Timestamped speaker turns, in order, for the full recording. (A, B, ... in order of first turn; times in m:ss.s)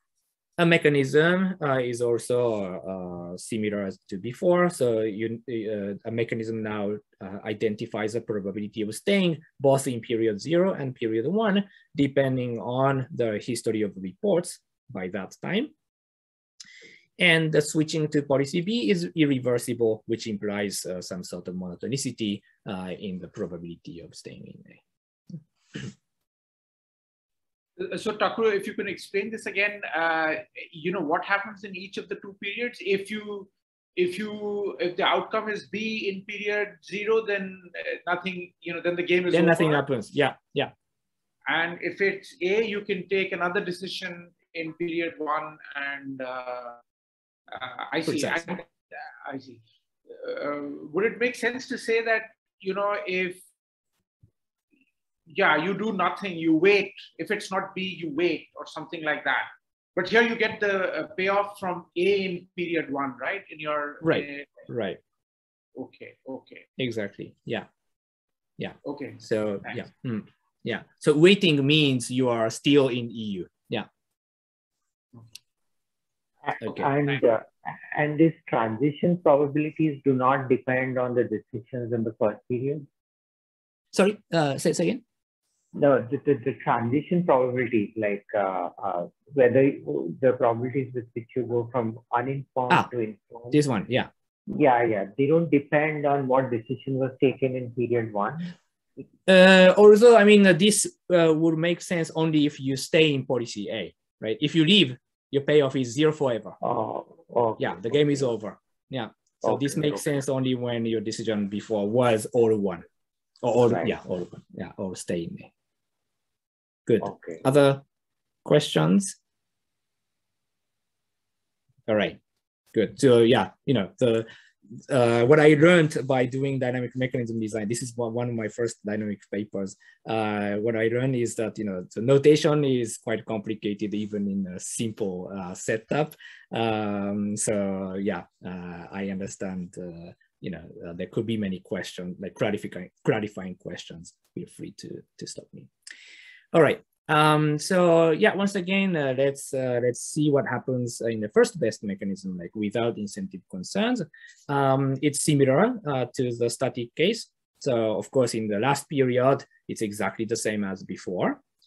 0:00.6-0:15.7 A
0:17.2-0:24.8 A
0:27.8-0:39.8 B
0:39.3-0:40.7 A
0:41.5-0:46.8 B
0:47.5-0:48.7 B
0:48.0-0:48.6 A
0:49.2-0:53.4 B
0:55.3-1:04.5 B
1:04.0-1:05.0 A
1:05.7-1:06.6 B
1:06.8-1:07.7 A
1:08.6-1:13.9 A
1:08.8-1:09.8 B
1:16.4-1:22.9 C
1:16.6-1:16.9 A
1:23.9-1:25.0 A
1:25.7-1:33.6 C
1:33.5-1:34.1 A
1:34.5-1:38.5 C
1:39.3-1:46.6 A
1:46.6-1:48.3 C
1:47.6-1:52.8 A
1:49.4-1:50.1 C
1:53.4-1:55.5 A
1:56.8-1:57.8 A
1:57.0-1:57.4 C
1:58.4-1:59.2 A
2:01.9-2:02.2 A
2:02.7-2:25.7 A
2:26.5-2:41.4 A